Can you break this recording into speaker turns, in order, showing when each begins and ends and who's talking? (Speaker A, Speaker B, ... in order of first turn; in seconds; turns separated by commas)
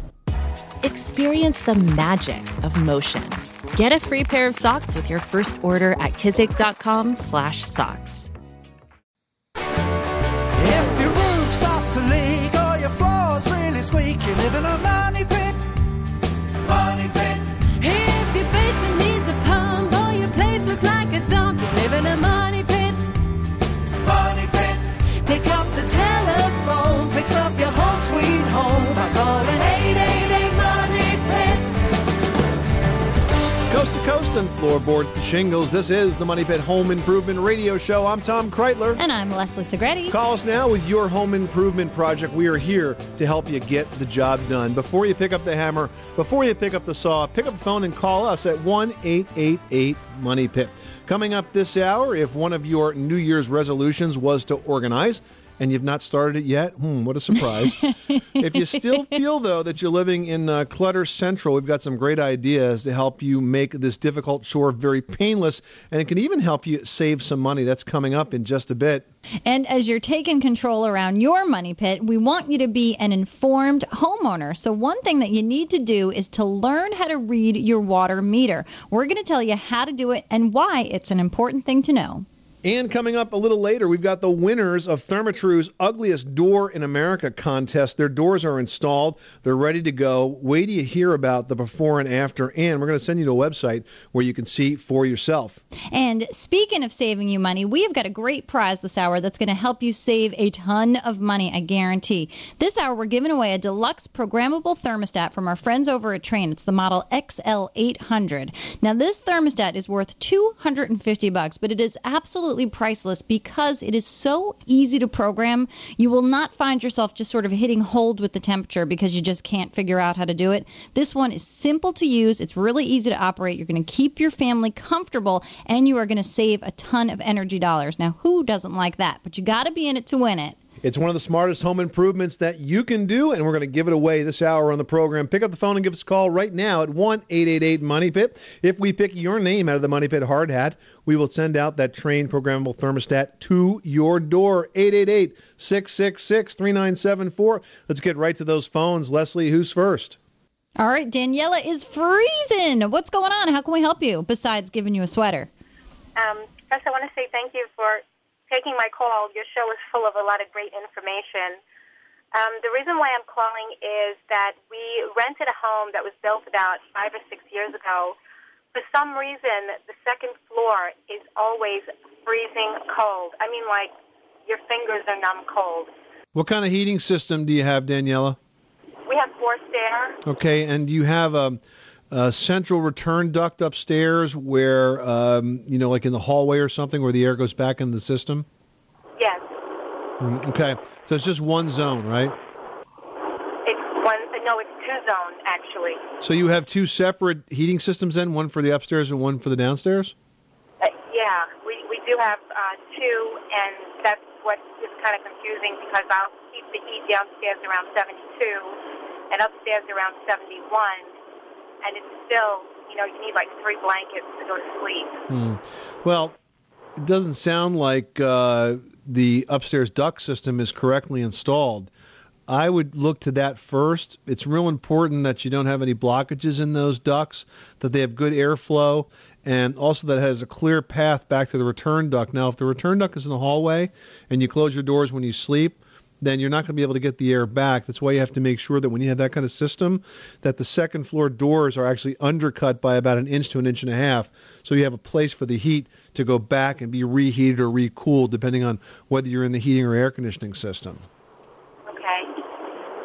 Speaker A: 0.8-8.3, Speaker B: 10.6-15.5, Speaker A: 16.7-17.1, Speaker A: 17.8-23.1, Speaker A: 24.0-31.7, Speaker C: 33.7-39.0, Speaker D: 39.0-40.1, Speaker C: 40.1-57.8, Speaker D: 57.7-59.1, Speaker C: 58.4-69.1, Speaker D: 69.5-82.2, Speaker C: 82.6-95.6, Speaker D: 95.9-130.6, Speaker C: 130.8-150.2, Speaker D: 150.8-155.5, Speaker E: 156.2-161.6, Speaker E: 162.3-168.2, Speaker E: 168.7-173.9, Speaker E: 174.4-175.9, Speaker C: 176.3-178.4, Speaker E: 179.1-180.2, Speaker C: 180.2-181.6, Speaker C: 182.1-188.5, Speaker E: 189.2-189.4, Speaker C: 190.2-192.3, Speaker E: 193.6-196.0, Speaker C: 196.2-200.1, Speaker E: 200.8-208.8, Speaker E: 209.3-211.1, Speaker E: 211.8-215.2, Speaker C: 215.3-216.3, Speaker C: 217.0-221.9, Speaker C: 222.5-251.1, Speaker E: 251.9-252.3